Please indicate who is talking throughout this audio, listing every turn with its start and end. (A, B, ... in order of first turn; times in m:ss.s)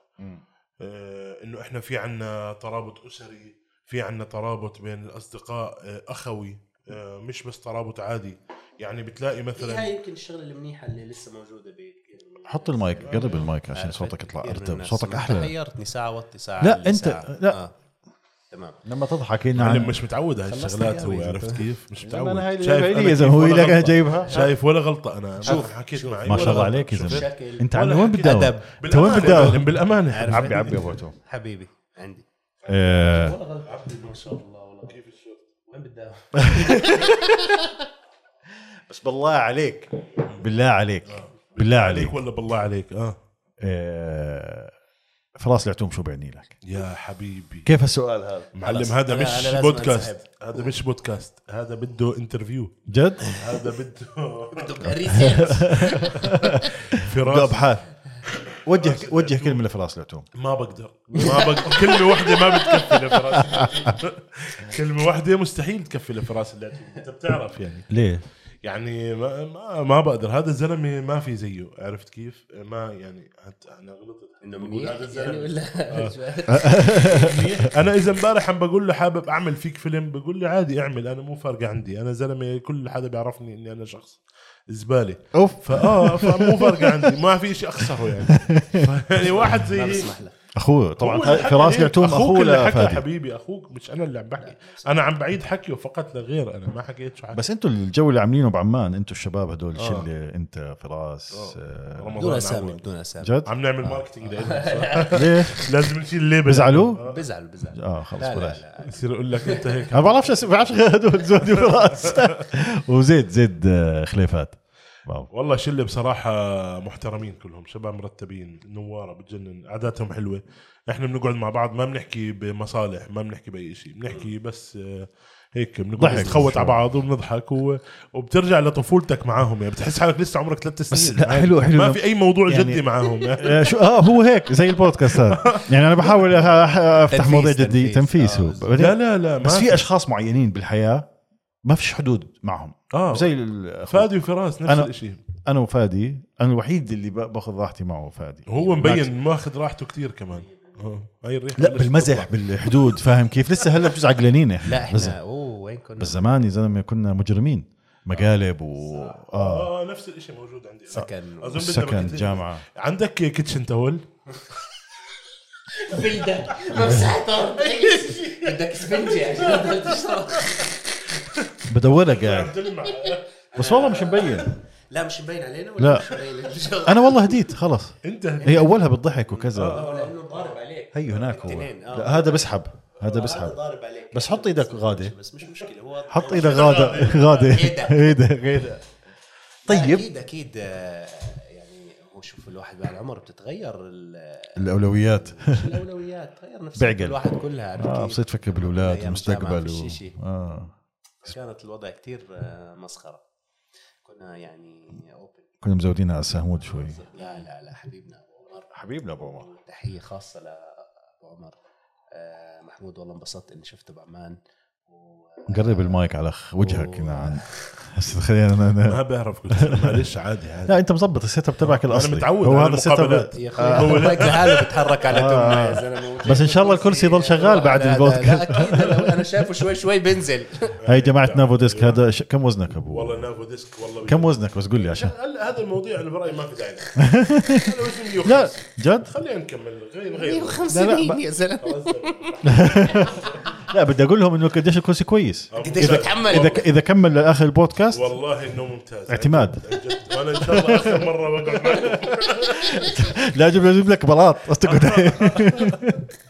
0:00.8-0:09.9 A
0:09.6-0:17.7 B
0:12.5-0:15.5 C
0:13.0-0:13.5 A
0:16.6-0:17.6 C
0:18.5-0:18.8 B
0:18.8-0:19.9 C
0:19.5-0:30.8 A
0:20.5-0:21.6 B
0:22.0-0:24.5 C
0:24.2-0:24.5 B
0:25.4-0:29.5 B
0:26.2-0:29.7 C
0:30.1-0:32.2 B
0:30.2-0:31.1 C
0:32.6-0:33.1 A
0:32.7-0:33.4 C
0:32.9-0:34.9 B
0:33.7-0:34.2 A
0:34.9-0:35.5 A
0:35.7-0:37.8 B
0:36.5-0:37.4 C
0:38.9-0:39.9 C
0:40.4-0:42.2 C
0:41.0-0:43.2 A
0:43.6-0:44.7 C
0:45.4-0:46.6 C
0:46.6-0:47.7 A
0:47.6-0:48.5 C
0:48.5-0:59.6 A
0:48.6-0:50.7 B
0:52.9-0:53.3 C
0:54.5-0:56.7 B
0:55.2-0:57.8 C
0:58.6-1:00.2 C
1:00.3-1:07.9 A
1:01.2-1:02.0 B
1:01.2-1:03.9 C
1:03.4-1:03.9 B
1:07.9-1:08.2 C
1:08.6-1:16.2 A
1:14.4-1:17.4 B
1:16.5-1:17.4 C
1:17.0-1:30.1 A
1:25.3-1:27.1 C
1:27.8-1:28.9 C
1:29.2-1:30.3 B
1:30.6-1:33.0 C
1:31.0-1:37.4 A
1:34.4-1:34.9 B
1:37.3-1:42.2 C
1:39.8-1:40.1 A
1:41.3-1:42.8 A
1:42.2-1:43.3 B
1:43.2-1:44.0 C
1:43.4-1:47.2 A
1:44.4-1:45.2 B
1:45.2-1:45.6 C
1:46.4-1:47.0 C
1:47.0-1:49.9 B
1:47.8-1:48.6 C
1:48.8-1:50.7 A
1:49.9-1:55.3 C
1:51.4-1:52.4 A
1:55.3-2:13.7 A
2:06.0-2:06.8 C
2:10.9-2:21.0 C
2:15.1-2:16.3 A
2:17.1-2:18.8 B
2:18.8-2:19.8 A
2:21.6-2:24.1 C
2:22.9-2:25.2 A
2:24.6-2:29.1 C
2:28.5-2:32.3 A
2:30.3-2:30.9 B
2:31.6-2:35.2 C
2:34.6-2:36.2 B
2:36.0-2:39.7 C
2:38.8-2:39.2 B
2:39.3-2:44.0 A
2:40.9-2:41.7 B
2:41.5-2:42.6 C
2:45.7-2:51.1 B
2:46.6-2:50.5 A
2:51.2-2:53.3 A
2:51.7-2:52.6 C
2:52.9-2:57.3 B
2:53.6-2:54.5 C
2:55.8-2:56.1 C
2:56.8-2:59.9 C
2:58.0-2:58.7 A
2:58.4-3:08.2 B
2:59.6-3:00.6 A
3:00.9-3:03.6 C
3:04.1-3:05.1 C
3:06.1-3:08.8 C
3:06.1-3:07.5 A
3:09.6-3:10.0 C
3:09.7-3:20.2 B
3:14.6-3:15.8 C
3:16.8-3:20.7 C
3:21.2-3:23.2 B
3:24.0-3:25.5 B
3:25.6-3:27.0 C
3:26.7-3:31.6 B
3:28.7-3:29.5 C
3:32.1-3:34.4 B
3:34.9-3:36.0 B
3:35.5-3:39.0 C
3:36.6-3:37.7 B
3:38.8-3:40.8 A
3:39.5-3:40.1 C
3:40.7-3:44.3 C
3:41.7-3:44.8 A
3:43.3-3:50.7 B
3:45.1-3:49.0 C
3:50.8-3:52.0 A
3:50.8-3:53.2 C
3:52.9-4:00.8 A
3:54.0-3:55.1 C
3:57.0-3:59.1 C
4:00.1-4:03.5 B
4:00.7-4:01.2 C
4:01.6-4:03.6 A
4:02.4-4:08.1 C
4:05.5-4:06.7 A
4:05.6-4:06.6 B
4:07.9-4:12.9 A
4:09.1-4:09.6 C
4:10.4-4:11.0 C
4:11.9-4:16.1 C
4:12.7-4:13.0 B
4:14.6-4:15.8 A